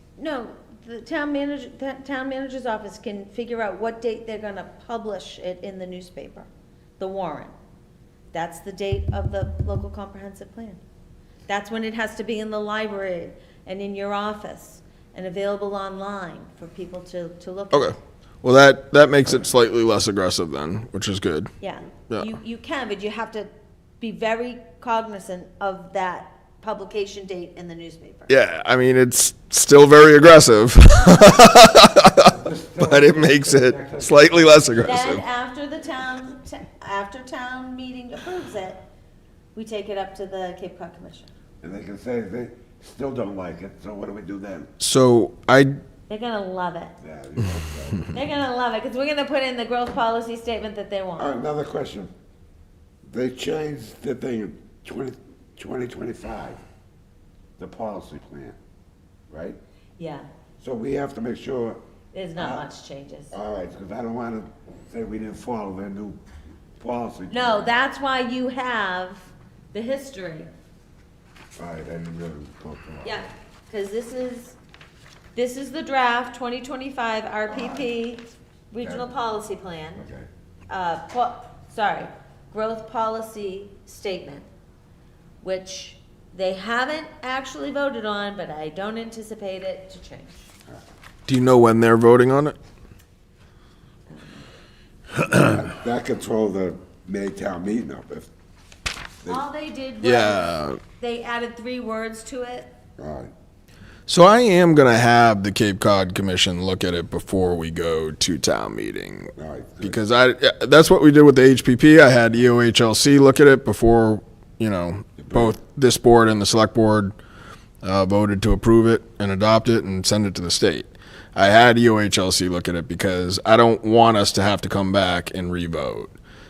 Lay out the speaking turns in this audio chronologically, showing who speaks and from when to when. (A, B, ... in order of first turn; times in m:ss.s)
0:00.2-0:06.5 A
0:07.0-0:07.5 A
0:08.3-0:10.8 A
0:11.5-0:18.0 A
0:17.7-0:21.5 B
0:21.6-0:23.5 A
0:22.1-0:22.3 B
0:24.0-0:28.3 A
0:28.3-0:35.2 B
0:32.2-0:34.8 C
0:34.8-0:38.9 A
0:39.6-0:41.3 A
0:41.6-0:44.7 C
0:44.8-0:45.8 B
0:46.1-0:47.0 A
0:47.0-0:48.1 C
0:48.1-0:51.4 A
0:51.2-0:52.1 C
0:53.1-0:56.6 C
0:57.6-0:58.6 C
0:59.3-0:59.6 C
1:00.0-1:00.3 A
1:00.6-1:01.8 C
1:02.1-1:03.3 A
1:02.4-1:02.7 C
1:03.3-1:06.2 C
1:06.8-1:07.7 C
1:07.3-1:10.5 A
1:11.6-1:13.3 C
1:13.0-1:14.6 A
1:15.3-1:20.0 A
1:17.5-1:17.9 C
1:18.8-1:19.1 C
1:20.0-1:20.3 C
1:20.7-1:24.4 A
1:25.4-1:30.5 A
1:31.3-1:32.6 B
1:34.1-1:34.5 A
1:35.2-1:38.3 C
1:39.2-1:42.7 A
1:40.0-1:40.8 B
1:43.0-1:43.3 C
1:44.1-1:57.2 B
1:49.4-1:50.0 C
1:55.2-1:55.6 C
1:57.8-2:06.1 B